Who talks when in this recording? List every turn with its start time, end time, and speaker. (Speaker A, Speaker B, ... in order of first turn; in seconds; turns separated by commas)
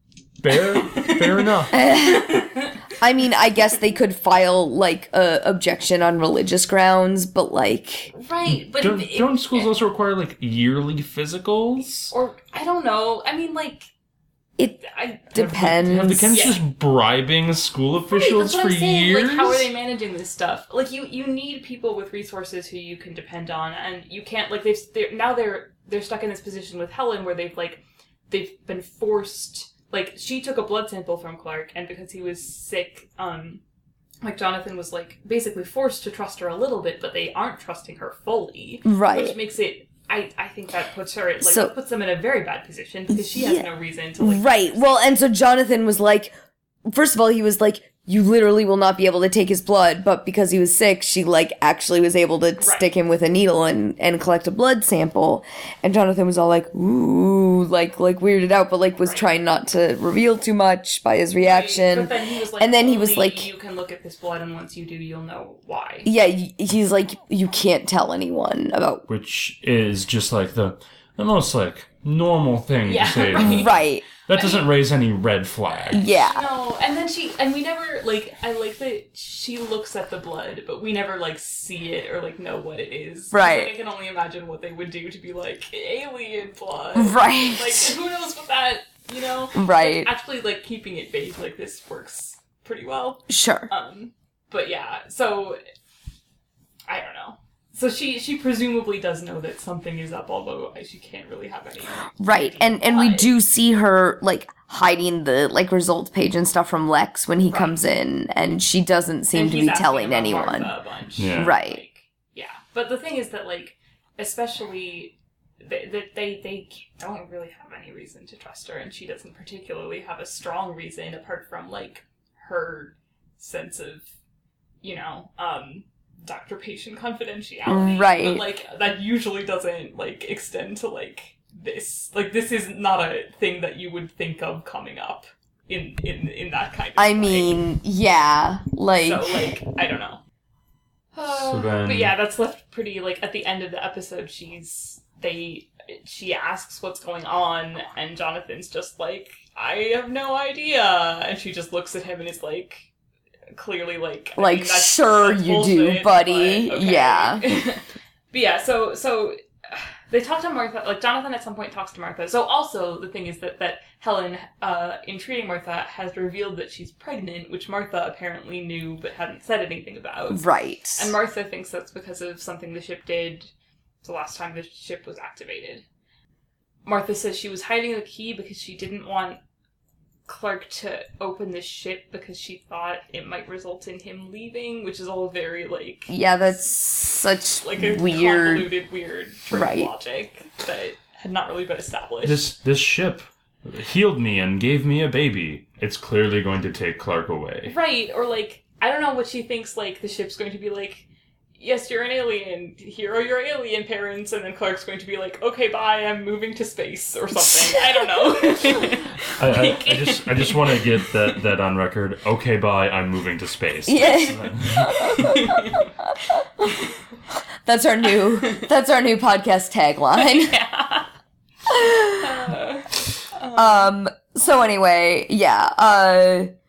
Speaker A: 0.4-1.8, Speaker B: 0.8-2.8, Speaker C: 1.7-2.5, Speaker C: 3.0-8.1, Speaker B: 8.1-9.7, Speaker A: 8.5-12.1, Speaker B: 12.1-13.9, Speaker C: 14.6-16.4, Speaker B: 14.9-15.3, Speaker A: 15.4-19.7, Speaker B: 16.3-16.6, Speaker B: 18.1-33.6, Speaker B: 34.2-45.0, Speaker C: 38.9-39.4, Speaker C: 41.4-41.7, Speaker C: 43.1-46.3, Speaker C: 46.9-63.5, Speaker B: 52.6-52.9, Speaker B: 59.0-59.3, Speaker B: 61.4-66.1, Speaker C: 66.0-69.0, Speaker A: 69.1-76.1, Speaker B: 72.8-73.8, Speaker C: 73.4-74.1, Speaker B: 74.3-74.7, Speaker C: 75.9-76.4, Speaker B: 76.0-95.6, Speaker C: 83.3-83.7, Speaker C: 87.0-88.0, Speaker C: 89.5-90.1, Speaker C: 93.3-93.7, Speaker B: 96.9-103.3, Speaker C: 102.2-110.7, Speaker B: 107.4-107.8, Speaker B: 109.3-124.1, Speaker A: 111.2-111.6, Speaker C: 111.3-111.8, Speaker B: 124.8-137.6, Speaker C: 127.7-128.4, Speaker C: 137.0-139.4, Speaker B: 139.0-140.2, Speaker B: 141.1-152.9, Speaker A: 141.3-142.2, Speaker B: 153.5-173.5, Speaker C: 154.4-157.4, Speaker C: 170.3-171.1, Speaker B: 174.0-175.8, Speaker B: 176.8-179.4, Speaker B: 180.3-186.6, Speaker C: 186.1-188.7, Speaker B: 187.6-192.5, Speaker C: 189.5-189.9, Speaker A: 192.2-197.8, Speaker B: 197.7-201.1, Speaker B: 201.6-211.1, Speaker C: 207.6-208.7, Speaker A: 209.2-215.4, Speaker C: 213.9-216.8, Speaker B: 214.0-215.9, Speaker C: 217.6-220.6, Speaker B: 218.4-218.7, Speaker B: 220.1-221.1, Speaker C: 221.7-222.4, Speaker B: 222.2-223.9, Speaker C: 223.5-226.5